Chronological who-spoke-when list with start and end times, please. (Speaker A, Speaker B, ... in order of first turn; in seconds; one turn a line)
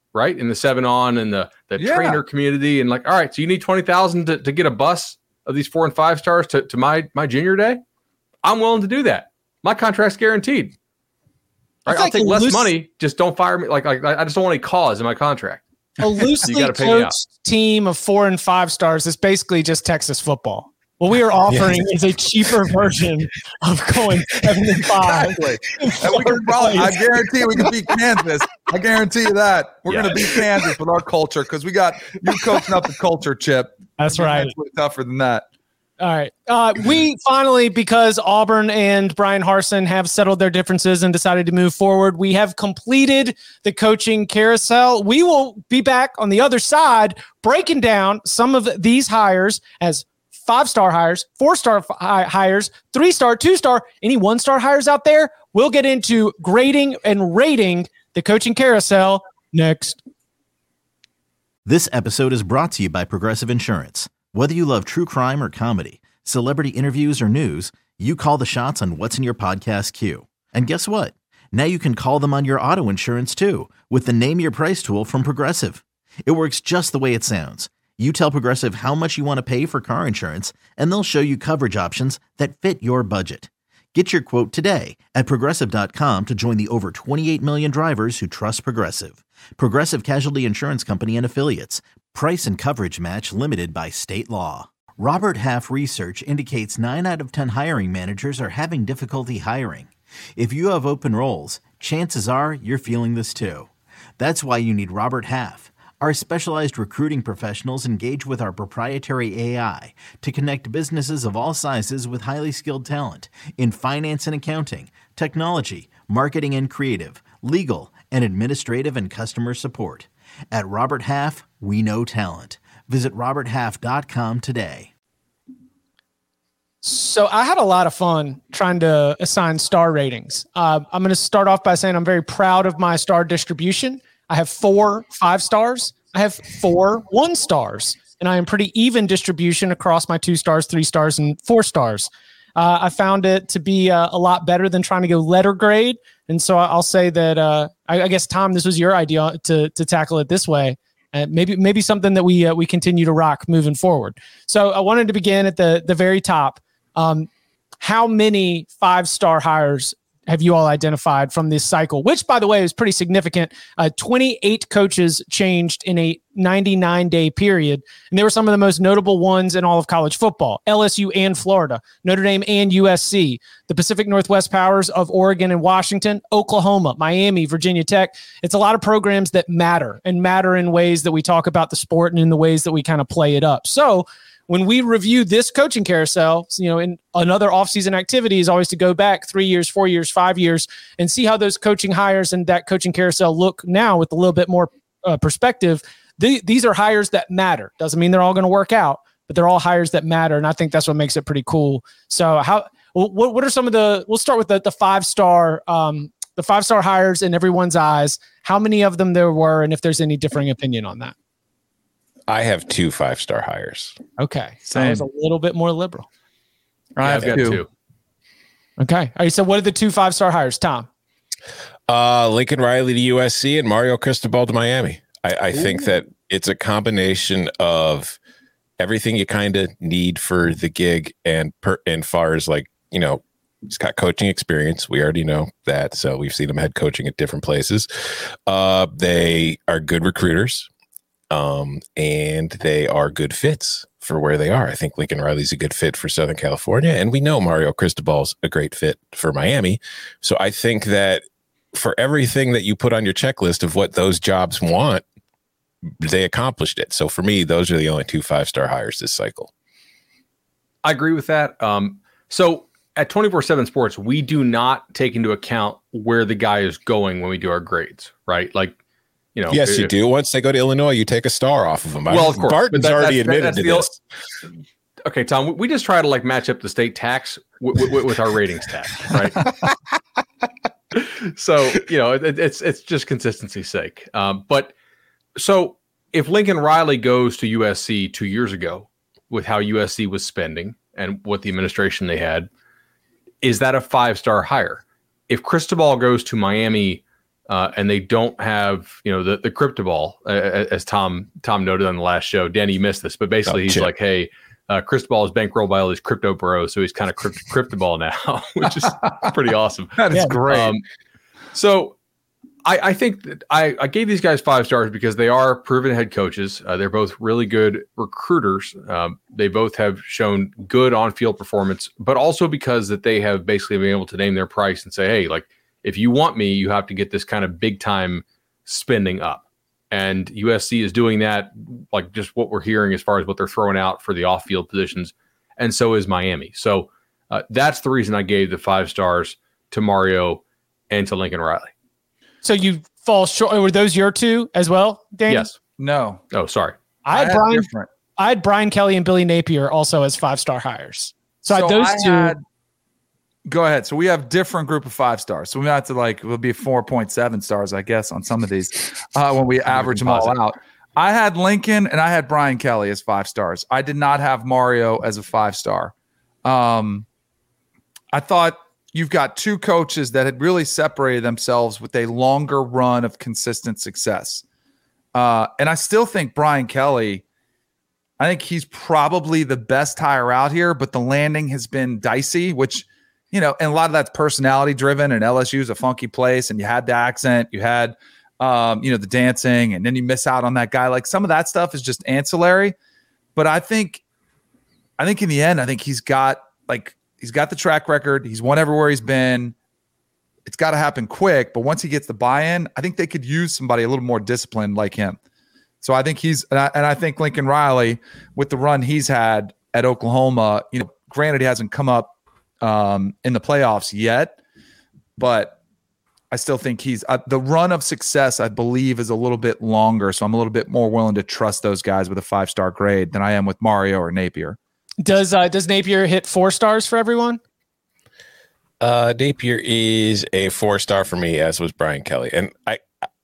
Speaker A: 0.1-7.8
Speaker B: 1.8-2.2
Speaker A: 8.4-10.7
Speaker A: 11.8-15.6
Speaker C: 11.9-12.7
Speaker C: 16.0-27.0
Speaker A: 16.4-17.1
Speaker D: 21.5-21.8
Speaker D: 24.3-24.7
Speaker B: 25.0-35.4
Speaker A: 29.9-30.2
Speaker C: 34.0-34.5
Speaker C: 36.0-60.0
Speaker E: 61.6-124.9
Speaker C: 126.8-157.3
Speaker C: 157.8-211.1
Speaker D: 212.3-214.0
Speaker C: 214.2-216.1
Speaker B: 214.7-215.0
Speaker B: 216.9-217.6
Speaker A: 217.0-217.7
Speaker C: 218.8-220.9
Speaker D: 221.9-228.2
Speaker D: 228.8-237.9
Speaker D: 238.5-240.7
Speaker D: 241.3-255.0
Speaker D: 255.9-259.5
Speaker A: 260.8-268.8
Speaker A: 269.3-269.9
Speaker D: 269.5-274.0
Speaker B: 272.1-273.9
Speaker A: 272.3-272.6
Speaker A: 275.0-279.5
Speaker A: 280.9-284.7
Speaker A: 285.4-292.5
Speaker A: 293.4-310.8
Speaker D: 303.4-303.9
Speaker B: 310.0-310.7
Speaker A: 311.5-311.9
Speaker A: 312.6-341.7
Speaker C: 342.4-345.5
Speaker A: 345.3-345.5
Speaker B: 345.8-346.2
Speaker A: 346.3-346.8
Speaker C: 347.0-352.3
Speaker B: 347.1-347.9
Speaker B: 351.5-352.4
Speaker B: 353.4-365.9
Speaker A: 359.7-360.4
Speaker B: 366.4-367.1
Speaker B: 368.1-374.4
Speaker B: 375.1-377.2
Speaker B: 378.2-392.7
Speaker B: 393.4-394.0
Speaker B: 395.0-399.5
Speaker B: 400.4-405.2
Speaker B: 405.8-414.4
Speaker B: 415.2-415.6
Speaker B: 416.3-424.6
Speaker C: 425.0-427.4
Speaker D: 428.8-432.8